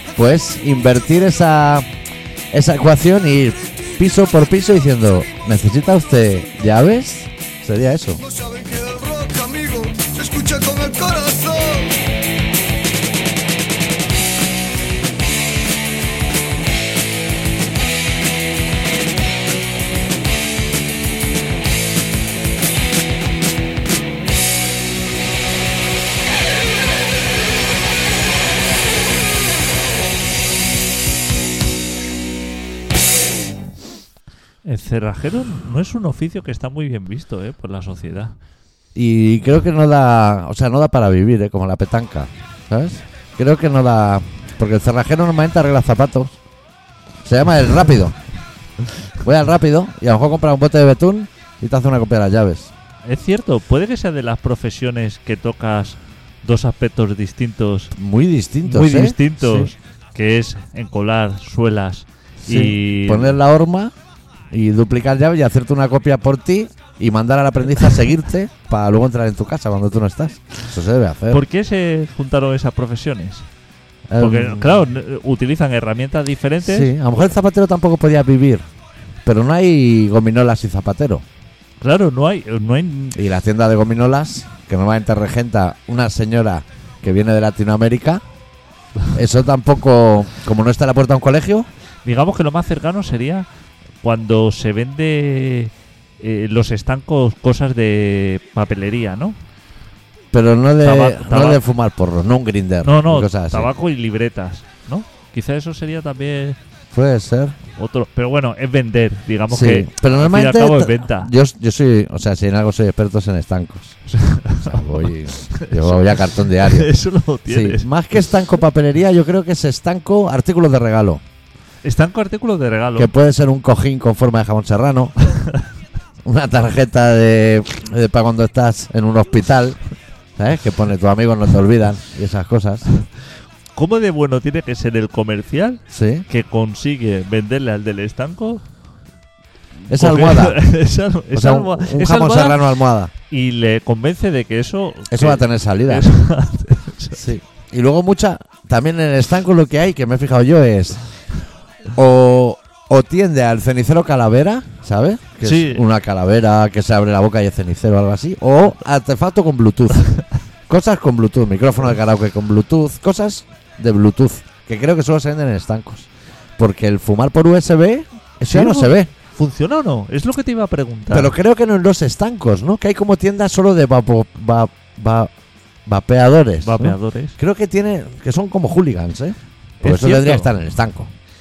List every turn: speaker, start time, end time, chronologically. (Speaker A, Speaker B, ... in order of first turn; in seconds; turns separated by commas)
Speaker A: 0.2-1.9, Speaker A: 2.5-8.2, Speaker B: 8.2-12.0, Speaker C: 34.6-38.4, Speaker A: 39.0-46.4, Speaker A: 47.2-48.2, Speaker A: 49.2-52.7, Speaker C: 53.0-57.9, Speaker A: 58.0-59.7, Speaker C: 58.6-63.4, Speaker A: 62.4-63.9, Speaker A: 64.5-71.4, Speaker C: 71.3-73.5, Speaker A: 74.1-74.8, Speaker C: 74.2-77.0, Speaker A: 76.6-78.7, Speaker A: 79.2-81.2, Speaker C: 81.8-83.2, Speaker A: 83.1-88.2, Speaker A: 89.1-91.7, Speaker C: 92.0-93.5, Speaker C: 94.0-99.4, Speaker A: 100.3-103.7, Speaker C: 100.8-101.6, Speaker C: 102.8-106.6, Speaker A: 106.9-107.6, Speaker C: 107.8-111.3, Speaker A: 109.5-114.0, Speaker C: 114.1-117.9, Speaker A: 114.6-116.9, Speaker A: 117.5-121.2, Speaker C: 121.8-123.1, Speaker A: 123.0-125.2, Speaker A: 126.2-129.8, Speaker A: 130.4-132.9, Speaker C: 133.8-138.7, Speaker A: 135.9-136.3, Speaker A: 139.9-140.6, Speaker C: 139.9-142.7, Speaker A: 141.3-143.1, Speaker C: 143.3-147.3, Speaker A: 145.1-146.1, Speaker A: 147.2-151.0, Speaker A: 151.9-169.1, Speaker C: 155.4-155.8, Speaker C: 168.5-171.3, Speaker A: 171.1-175.3, Speaker A: 175.9-181.1, Speaker C: 176.6-177.4, Speaker C: 179.8-180.5